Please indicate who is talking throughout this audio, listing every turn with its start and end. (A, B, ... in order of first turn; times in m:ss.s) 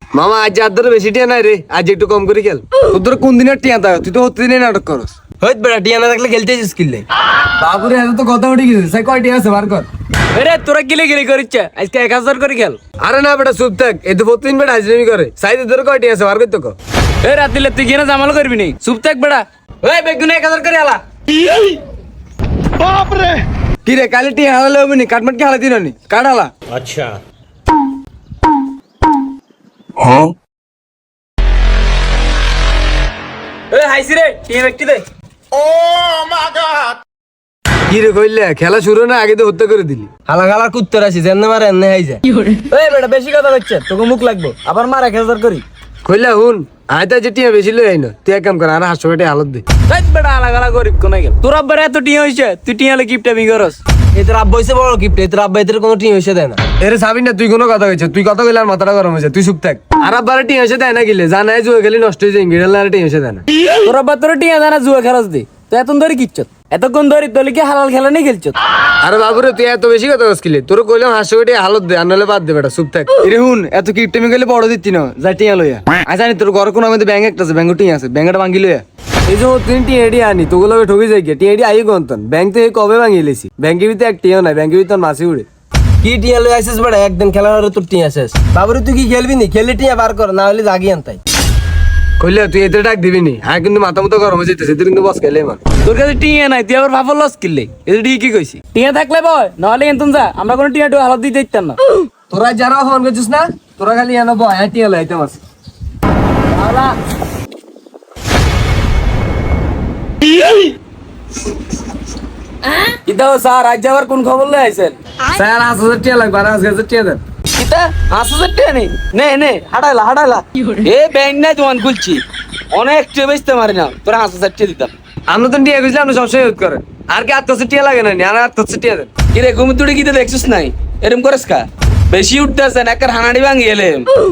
0:00.1-0:05.1 A
0:05.4-0:07.0 B
0:07.6-0:09.9 A
0:10.3-0:12.8 C
0:13.0-0:16.7 A
0:17.2-0:21.0 C
0:23.0-0:23.2 C
0:23.8-0:26.5 A
0:33.7-0:35.0 C
0:37.9-0:40.2 A
0:40.2-0:42.2 B
0:42.4-0:45.6 C
0:46.0-0:49.6 A
0:49.9-0:53.8 C
0:54.1-0:56.7 B
0:56.8-1:03.4 A
1:03.8-1:08.5 C
1:09.0-1:25.4 A
1:26.0-1:31.2 B
1:32.2-1:35.6 A
1:35.8-1:41.8 C
1:42.3-1:45.4 A
1:46.5-1:46.9 C
1:53.0-1:55.0 C
1:55.3-1:57.2 A
1:57.5-2:04.9 C
2:05.3-2:09.1 A
2:09.3-2:14.1 C